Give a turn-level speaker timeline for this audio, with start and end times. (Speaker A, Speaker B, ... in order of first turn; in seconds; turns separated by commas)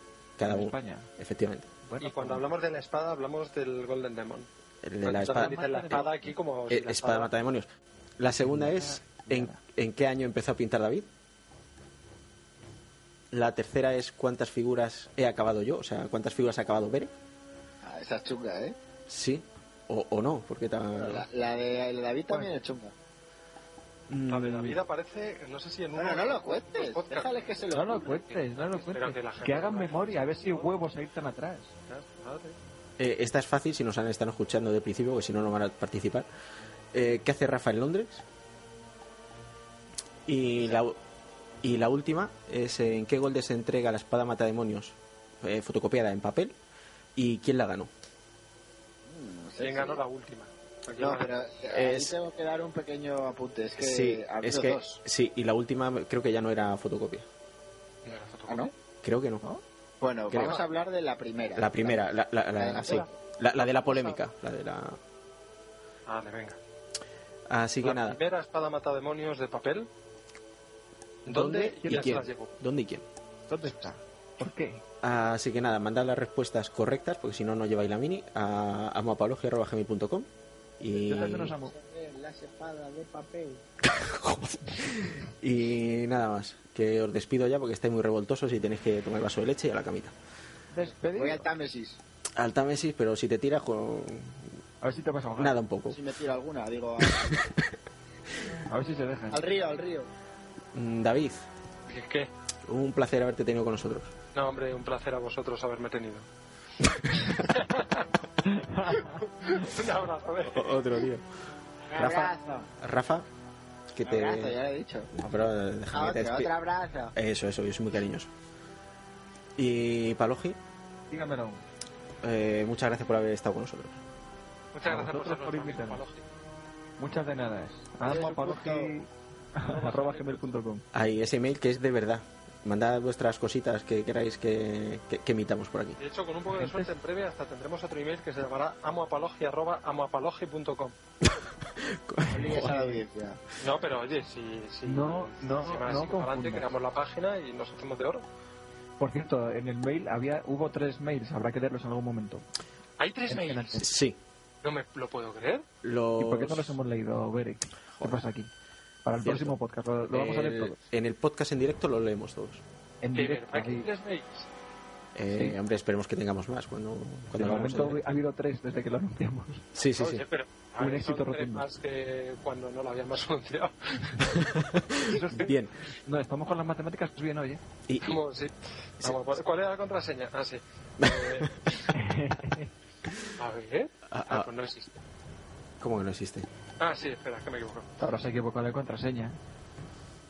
Speaker A: 0.4-1.7, Speaker B: 0.4-1.1, Speaker B: 1.8-2.5, Speaker C: 2.0-4.5, Speaker A: 4.8-5.6, Speaker C: 5.0-7.3, Speaker B: 5.2-6.3, Speaker A: 6.7-7.7, Speaker A: 8.2-11.1, Speaker B: 8.4-9.6, Speaker A: 13.3-17.1, Speaker D: 17.8-18.8, Speaker A: 19.1-21.2, Speaker D: 20.9-22.9, Speaker A: 24.1-24.8, Speaker C: 24.3-27.3, Speaker D: 25.9-28.2, Speaker B: 27.7-31.7, Speaker C: 27.8-30.8, Speaker C: 31.9-32.6, Speaker A: 33.0-36.3, Speaker A: 36.9-38.2, Speaker A: 40.2-41.0, Speaker A: 41.6-46.5, Speaker A: 47.1-47.9, Speaker D: 49.1-50.0, Speaker C: 49.6-51.5, Speaker D: 51.0-55.0, Speaker A: 51.7-52.1, Speaker A: 53.8-57.2, Speaker C: 58.0-58.7, Speaker A: 59.0-59.4, Speaker D: 60.0-63.1, Speaker A: 60.3-60.6, Speaker C: 60.3-60.6, Speaker A: 61.5-65.0, Speaker C: 62.7-63.0, Speaker C: 63.6-64.2, Speaker C: 66.1-66.6, Speaker A: 67.5-68.2, Speaker C: 67.8-69.9, Speaker C: 71.2-72.5, Speaker A: 71.3-73.0, Speaker B: 73.5-74.8, Speaker A: 75.0-80.3, Speaker A: 80.8-81.5, Speaker D: 81.0-83.6, Speaker B: 81.0-81.7, Speaker A: 83.8-90.1, Speaker B: 90.7-91.5, Speaker D: 91.1-92.0, Speaker A: 92.3-94.6, Speaker B: 94.8-95.6, Speaker A: 95.4-96.0, Speaker D: 95.9-97.4, Speaker A: 97.0-97.5, Speaker B: 98.7-99.4, Speaker D: 99.3-100.1, Speaker A: 100.7-101.5, Speaker C: 101.9-102.3, Speaker A: 102.7-104.1, Speaker C: 104.3-106.2, Speaker A: 107.0-107.4, Speaker C: 107.2-108.1, Speaker B: 108.4-109.2, Speaker C: 109.2-110.8, Speaker A: 110.5-111.3, Speaker D: 111.9-112.7, Speaker A: 111.9-113.2, Speaker A: 113.9-114.6, Speaker D: 114.0-115.1, Speaker A: 115.1-116.5, Speaker D: 115.9-117.1, Speaker A: 117.1-118.3, Speaker A: 119.6-120.6, Speaker B: 121.1-121.6, Speaker A: 122.2-124.0, Speaker C: 124.7-126.2, Speaker B: 124.8-126.0, Speaker B: 127.0-130.8, Speaker D: 128.0-128.9, Speaker C: 129.6-130.5, Speaker A: 130.9-136.0, Speaker C: 136.0-140.9, Speaker B: 136.5-136.9, Speaker A: 141.2-142.8, Speaker D: 142.3-143.4, Speaker B: 142.5-143.0, Speaker C: 143.6-148.2, Speaker B: 144.8-146.7, Speaker B: 149.0-152.4, Speaker C: 153.0-153.8, Speaker B: 153.3-153.9, Speaker A: 153.8-154.2, Speaker C: 154.6-155.6, Speaker A: 155.8-156.8, Speaker B: 156.2-158.5, Speaker A: 158.0-158.2, Speaker B: 159.0-160.8, Speaker A: 159.2-159.5, Speaker A: 160.1-162.6, Speaker B: 163.0-163.9, Speaker C: 163.2-164.5, Speaker A: 165.1-168.1, Speaker B: 165.3-165.6, Speaker B: 167.3-169.7, Speaker A: 169.7-170.2, Speaker C: 169.9-174.2, Speaker B: 170.8-171.7, Speaker A: 174.2-175.7, Speaker B: 175.1-177.6, Speaker A: 177.9-178.2, Speaker C: 178.0-181.8, Speaker A: 179.0-179.4, Speaker A: 181.0-181.7, Speaker B: 181.9-182.7, Speaker C: 183.3-184.9, Speaker A: 184.1-184.5, Speaker A: 185.8-186.5, Speaker C: 186.8-187.9, Speaker B: 188.0-189.4